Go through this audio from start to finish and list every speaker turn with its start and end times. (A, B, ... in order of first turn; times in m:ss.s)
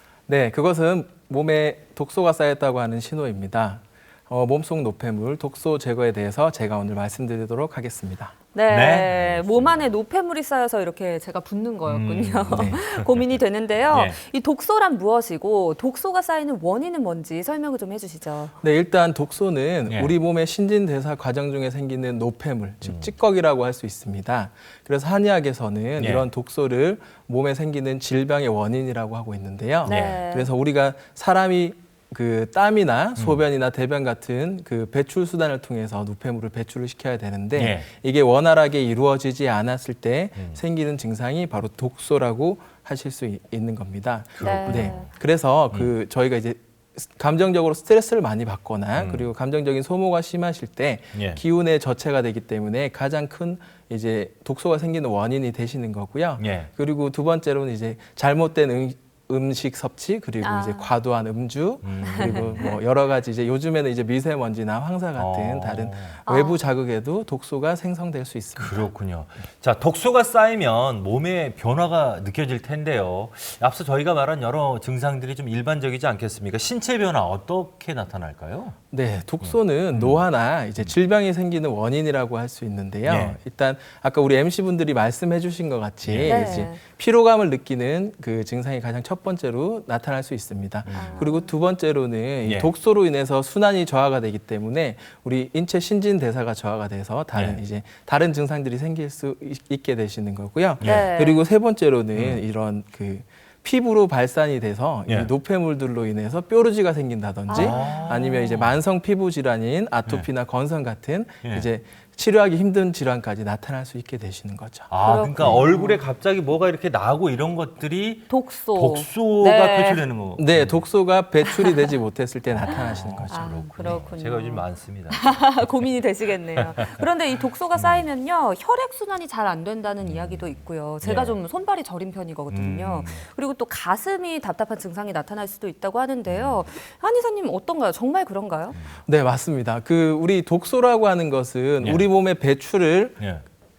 0:00.3-0:08.3 A
0:08.5-0:18.6 B
0:08.7-0:09.9 C
0:11.9-0:14.2 C
0:12.5-0:12.8 A
0:18.6-1:08.9 A
0:19.9-0:20.2 C
0:22.8-0:23.1 C
0:26.0-0:26.3 C
0:29.8-0:30.5 B
0:29.9-0:30.2 C
0:33.2-0:33.4 C
0:37.6-0:37.9 C
0:44.4-0:45.1 C
0:44.4-0:45.0 B
0:49.0-0:49.3 C
0:51.1-0:51.4 C
0:56.4-0:56.7 C
1:00.4-1:01.0 B
1:01.8-1:02.8 C
1:02.1-1:02.8 B
1:05.2-1:06.2 C
1:06.3-1:06.6 B
1:08.6-1:18.8 C
1:18.9-1:55.6 A
1:19.4-1:20.2 C
1:23.1-1:23.4 C
1:26.0-1:26.7 C
1:26.2-1:26.8 B
1:30.8-1:31.2 C
1:30.9-1:31.5 B
1:32.4-1:32.7 C
1:37.4-1:37.6 C
1:40.8-1:41.1 C
1:40.8-1:41.4 B
1:42.2-1:42.4 C
1:47.5-1:48.5 B
1:47.5-1:48.8 C
1:51.4-1:51.7 C
1:54.9-2:00.8 C
1:55.0-1:56.0 B
1:58.3-2:00.0 B
2:00.4-2:04.0 A
2:01.5-2:01.9 B
2:02.5-2:05.6 C
2:02.8-2:18.8 B
2:06.7-2:07.0 C
2:07.8-2:08.1 C
2:10.0-2:11.4 C
2:12.5-2:13.2 C
2:16.3-2:16.7 C
2:19.1-2:23.2 A
2:21.8-2:22.1 C